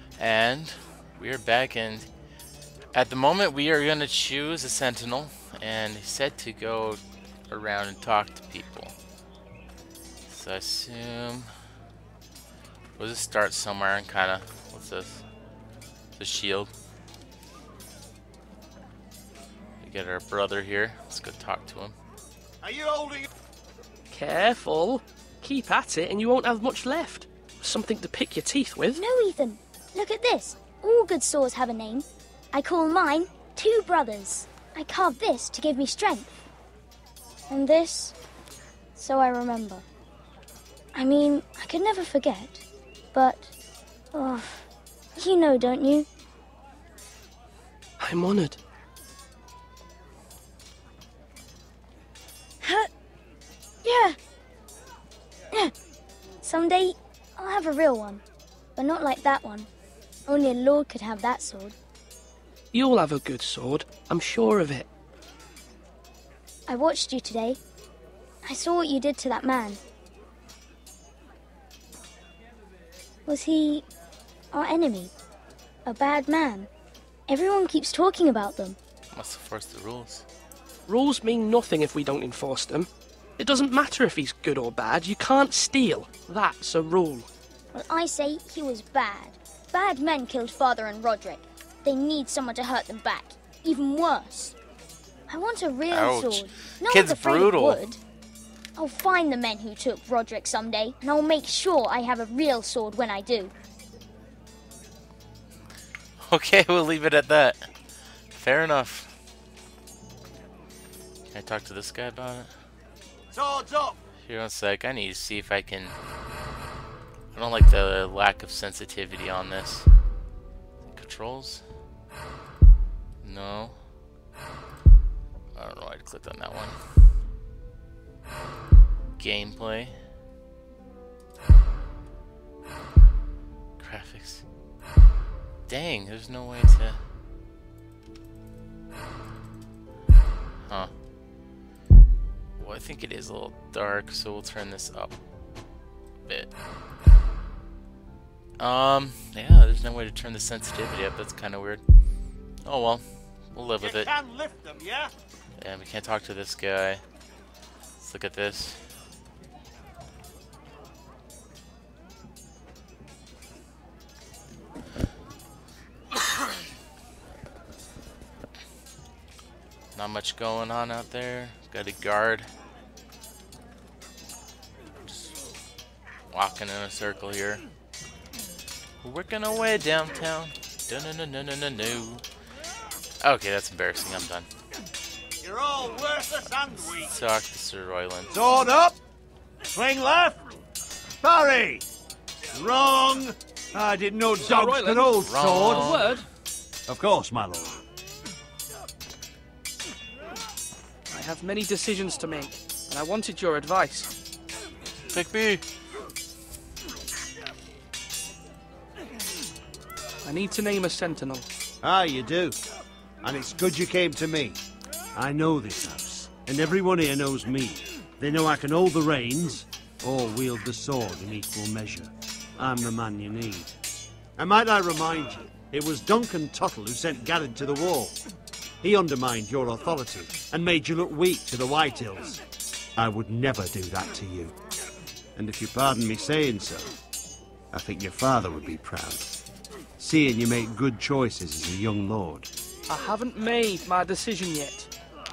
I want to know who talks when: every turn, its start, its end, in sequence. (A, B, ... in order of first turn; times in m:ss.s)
0:00.2-0:02.1 A
0:02.9-0:08.9 A
0:10.3-0:11.5 A
0:13.0-0:15.2 A
0:16.2-0:16.7 A
0:19.8-0:21.9 A
0:22.6-0:23.2 B
0:24.1-0:29.0 C
0:29.0-0:36.3 D
0:37.5-0:38.1 D
0:39.0-0:39.8 D
0:40.9-0:43.5 D
0:44.1-0:46.0 D
0:48.0-0:48.6 C
0:52.6-0:52.9 D
0:53.8-0:54.2 D
0:56.4-0:58.2 D
0:58.8-0:59.7 D
1:00.3-1:01.8 D
1:02.7-1:04.9 C
1:06.7-1:07.6 D
1:08.4-1:09.8 D
1:13.3-1:13.8 D
1:14.5-1:15.1 D
1:15.8-1:16.7 D
1:17.3-1:18.8 D
1:19.1-1:20.2 A
1:20.9-1:27.3 C
1:27.7-1:34.6 D
1:35.3-1:38.0 D
1:35.9-1:37.8 A
1:38.8-1:43.5 D
1:46.2-1:47.7 A
1:48.3-1:49.1 A
1:51.3-1:52.5 A
1:53.3-1:53.9 B
1:54.2-1:55.9 A
1:57.3-1:59.9 A
2:00.9-2:01.6 A
2:03.2-2:03.8 A
2:05.5-2:06.8 A
2:09.2-2:09.9 A
2:13.8-2:14.4 A
2:15.7-2:17.0 A
2:22.6-2:25.2 A
2:28.6-2:31.8 A
2:32.6-2:34.1 A
2:33.8-2:35.1 B
2:35.6-2:37.0 A
2:38.0-2:38.8 A
2:49.9-2:52.5 A
2:56.3-2:57.6 A
2:59.0-3:02.2 A
3:03.2-3:04.5 A
3:05.4-3:07.1 B
3:07.0-3:08.3 A
3:08.3-3:09.0 B
3:09.6-3:10.4 B
3:11.2-3:11.8 B
3:12.5-3:16.2 B
3:14.4-3:16.2 C
3:15.2-3:16.1 A
3:16.9-3:17.8 B
3:21.1-3:24.1 C
3:25.1-3:25.6 A
3:30.2-3:31.5 C
3:31.8-3:32.6 B
3:33.2-3:34.6 B
3:35.1-3:43.8 B
3:44.4-3:48.2 B
3:48.8-3:52.4 B
3:53.0-3:54.5 B
3:55.4-3:56.9 B
3:57.7-3:59.3 B
4:00.0-4:02.5 B
4:02.9-4:04.9 C